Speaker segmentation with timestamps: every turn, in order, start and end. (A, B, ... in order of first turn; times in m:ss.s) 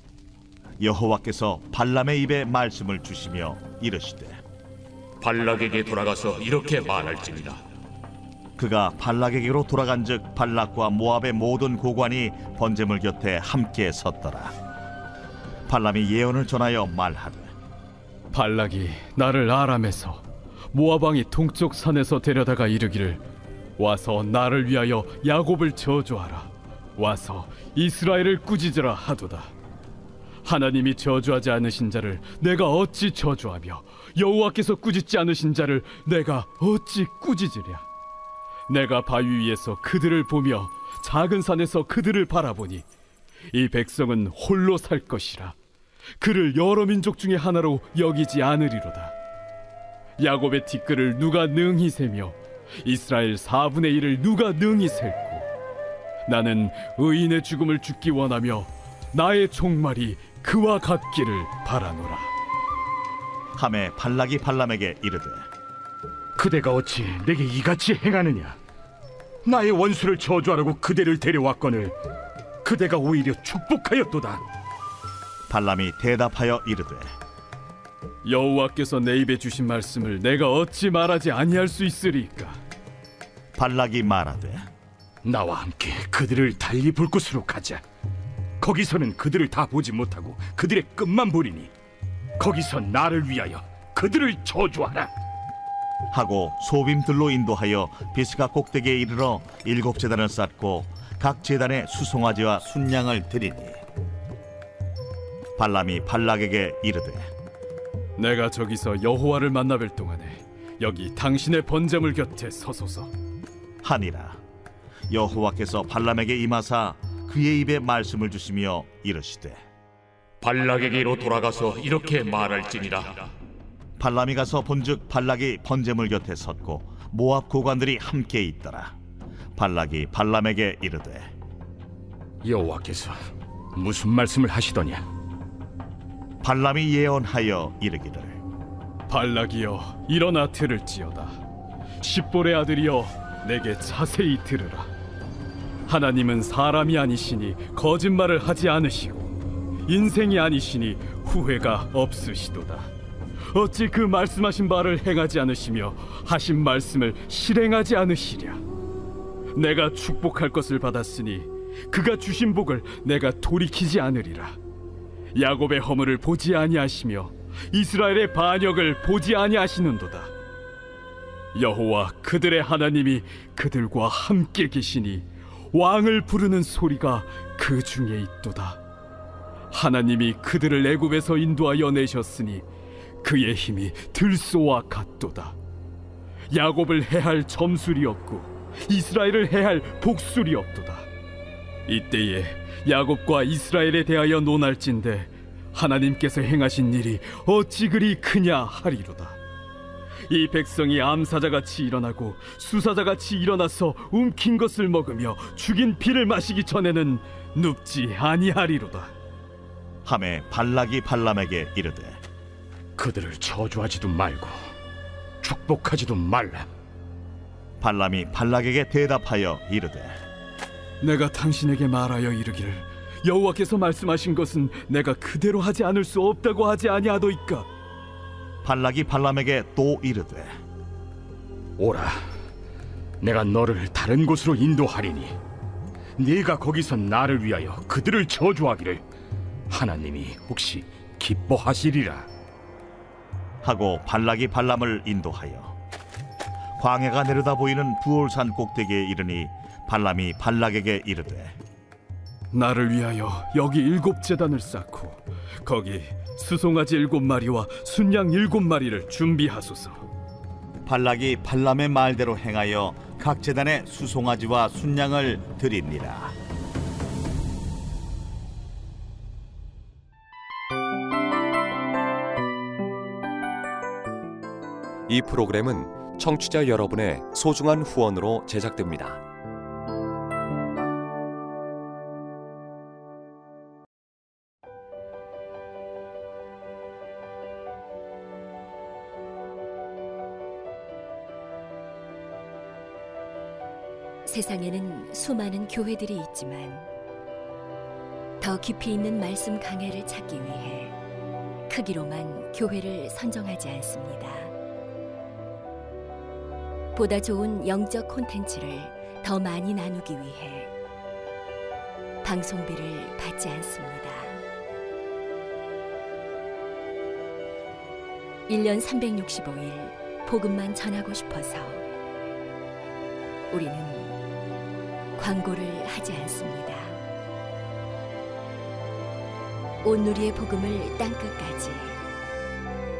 0:00.8-0:04.4 A
0:05.2-0:07.6 B
0:08.6-0:14.5 A
0:15.7-0:17.5 A
0:18.3-0:23.2 C
0:23.8-0:29.5 C
0:30.4-0:37.8 C
0:38.7-0:42.8 C
0:43.5-0:45.6 C
0:46.2-0:49.1 C
0:50.2-0:55.5 C
0:56.2-1:02.3 C
1:03.6-1:05.4 A
1:06.4-1:08.6 D
1:09.4-1:11.9 D
1:12.6-1:14.4 D
1:15.5-1:17.1 A
1:18.2-1:22.6 C
1:23.6-1:24.7 A
1:25.2-1:27.8 D
1:28.6-1:31.7 D
1:32.4-1:35.1 D
1:36.1-1:43.8 A
1:45.6-1:47.3 A
1:48.2-1:53.1 C
1:53.8-1:54.4 A
1:55.1-1:59.6 A
2:00.4-2:03.3 B
2:04.0-2:08.9 A
2:09.6-2:11.3 A
2:12.4-2:13.2 D
2:13.8-2:15.0 D
2:16.4-2:18.4 A
2:19.1-2:21.4 C
2:22.0-2:24.9 C
2:25.9-2:29.3 C
2:29.8-2:32.9 C
2:33.5-2:38.6 C
2:39.5-2:44.6 C
2:45.3-2:50.3 C
2:51.5-2:58.8 C
2:59.7-3:02.6 C
3:03.2-3:05.6 C
3:06.5-3:11.1 C
3:11.9-3:19.4 C
3:20.3-3:29.1 C
3:30.0-3:32.2 A
3:33.0-3:34.6 D
3:35.4-3:36.7 D
3:37.8-3:40.2 A
3:41.0-3:47.7 C
3:48.6-3:50.5 A
3:51.8-3:52.2 D
3:53.2-3:55.4 D
3:56.2-3:59.0 D
3:59.7-4:02.3 D
4:03.6-4:05.7 A
4:06.8-4:11.5 A
4:12.5-4:20.0 C
4:20.8-4:26.3 A
4:35.1-4:39.2 E
4:54.2-4:56.8 F
4:58.4-5:00.9 F
5:01.7-5:04.5 F
5:06.9-5:10.7 F
5:12.2-5:14.4 F
5:18.5-5:21.8 F
5:23.5-5:24.1 F
5:25.2-5:27.0 F
5:29.8-5:32.0 F